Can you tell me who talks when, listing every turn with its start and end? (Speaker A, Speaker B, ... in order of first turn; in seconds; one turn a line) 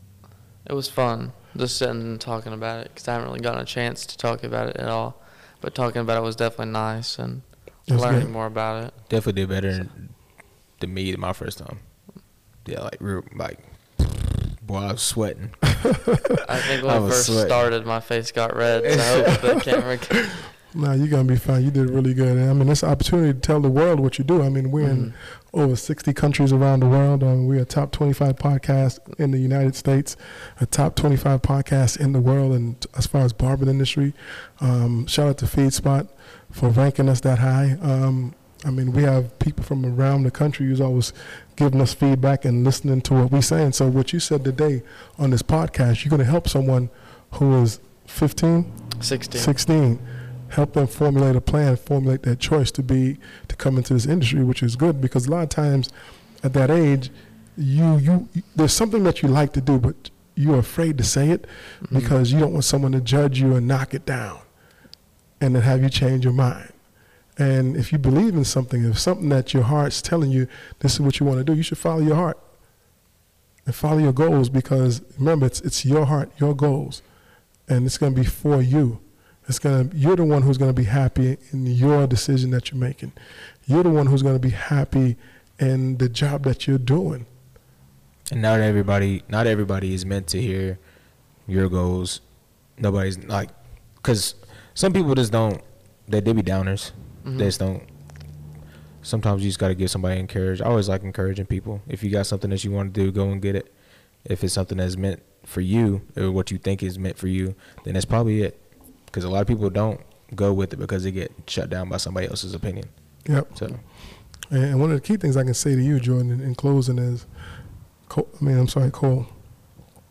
Speaker A: 0.6-9.5
Speaker B: 7.9-8.3
Speaker C: 9.1-16.3
Speaker A: 16.4-20.5
Speaker C: 16.8-17.7
Speaker C: 18.9-19.3
Speaker B: 20.7-64.5
Speaker A: 24.8-25.1
Speaker A: 49.0-49.5
Speaker A: 61.8-62.1
Speaker B: 65.4-66.8
Speaker B: 67.4-72.4
Speaker B: 73.7-77.0
Speaker B: 77.7-87.3
Speaker C: 88.3-90.8
Speaker C: 91.5-97.9
Speaker A: 97.2-97.5
Speaker C: 99.0-113.8
Speaker B: 113.2-117.3
Speaker B: 118.1-119.3